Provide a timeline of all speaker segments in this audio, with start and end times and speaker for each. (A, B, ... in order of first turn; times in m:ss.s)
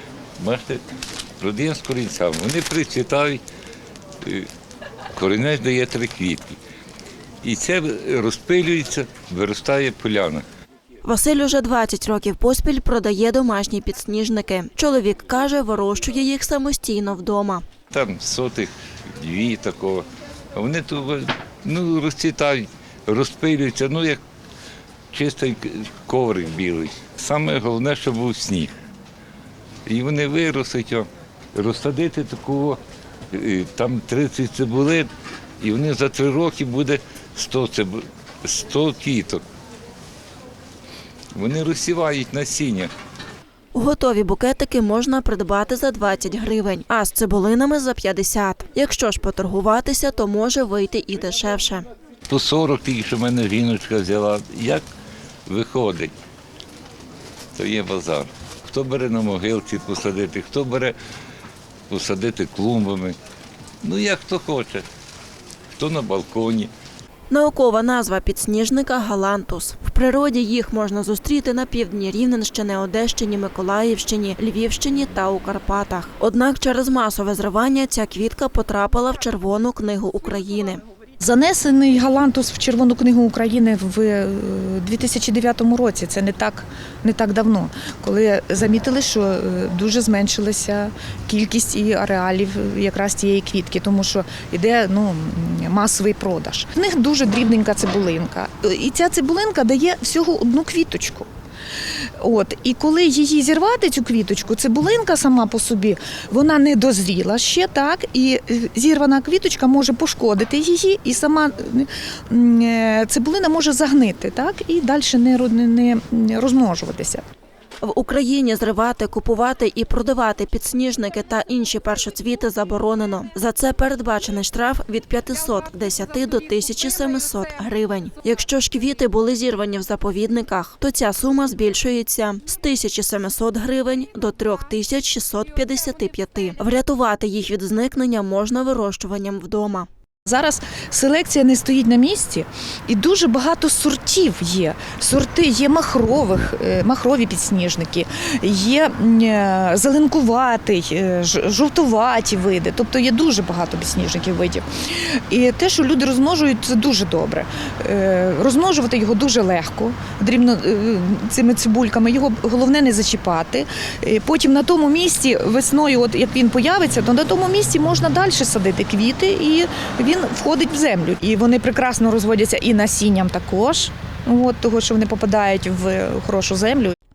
0:00.4-0:00.8 A
0:01.4-0:03.4 A
0:04.2-0:04.5 A
0:05.1-0:06.6 A
0:07.4-0:10.4 A
0:11.0-0:17.6 B
0:17.9-0:24.2 A
0:25.1-0:28.7 A
0:29.9-0:32.8 A
0:33.3-0:39.4 A
0:41.3-0:42.9 A
0:43.7-0:51.9 B
0:52.3-0:54.8 A
0:55.5-0:56.1 A
0:57.6-1:01.0 A
1:01.9-1:03.2 A
1:03.8-1:04.9 A
1:05.8-1:06.7 A
1:07.3-1:20.8 B
1:21.2-1:41.3 C
1:42.2-1:57.2 C
1:57.8-2:19.9 B
2:20.3-2:57.0 C